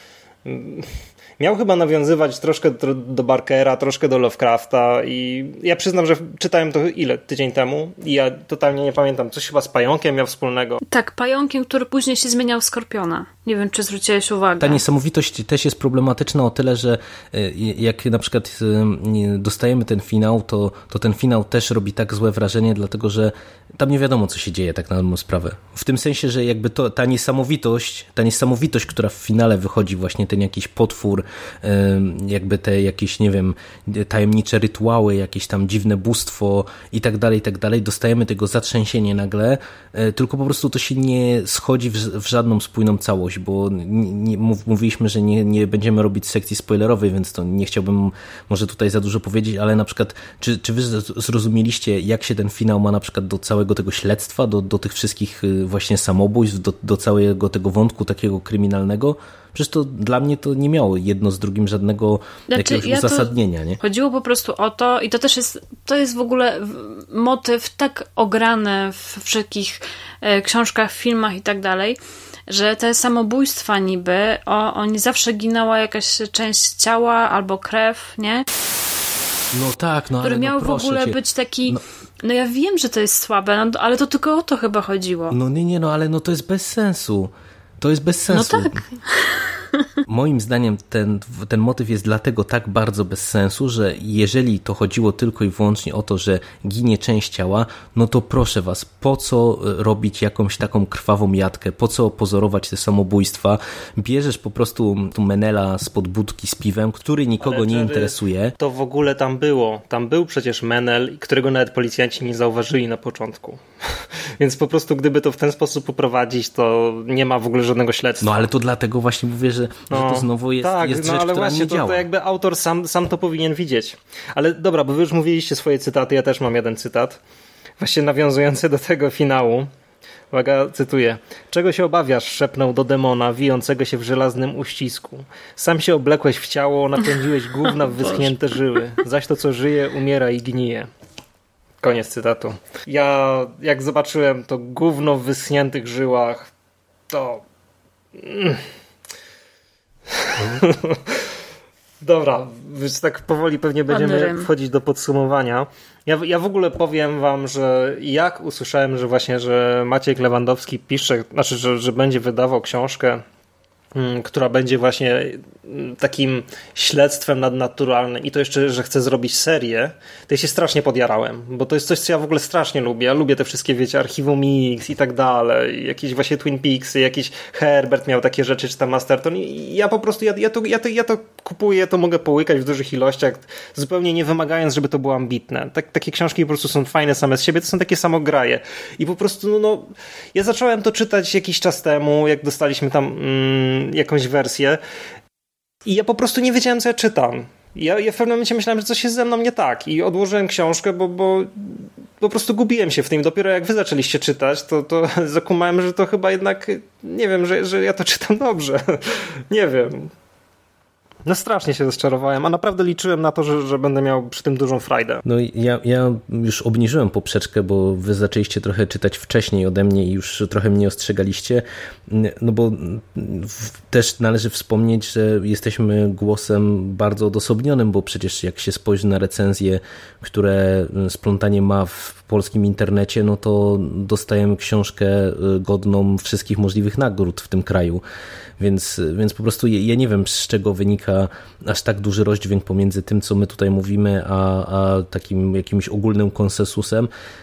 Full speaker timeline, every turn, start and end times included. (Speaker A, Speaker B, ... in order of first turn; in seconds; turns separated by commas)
Speaker A: 0.5-10.8, Speaker B: 10.8-14.8, Speaker C: 14.6-63.8, Speaker B: 62.5-78.5, Speaker C: 79.5-81.8, Speaker B: 80.2-85.4, Speaker C: 85.3-88.8, Speaker B: 88.3-89.8, Speaker C: 90.1-108.5, Speaker A: 107.4-118.5, Speaker C: 118.2-122.1, Speaker A: 119.9-127.2, Speaker A: 127.8-129.7, Speaker A: 130.3-140.9, Speaker A: 141.8-146.5, Speaker A: 147.1-147.4, Speaker A: 148.2-148.6, Speaker A: 150.1-151.2, Speaker A: 152.0-163.2, Speaker B: 153.9-154.5, Speaker A: 163.9-194.8, Speaker A: 195.9-210.1, Speaker A: 211.2-215.2, Speaker C: 215.2-238.0, Speaker C: 238.6-247.1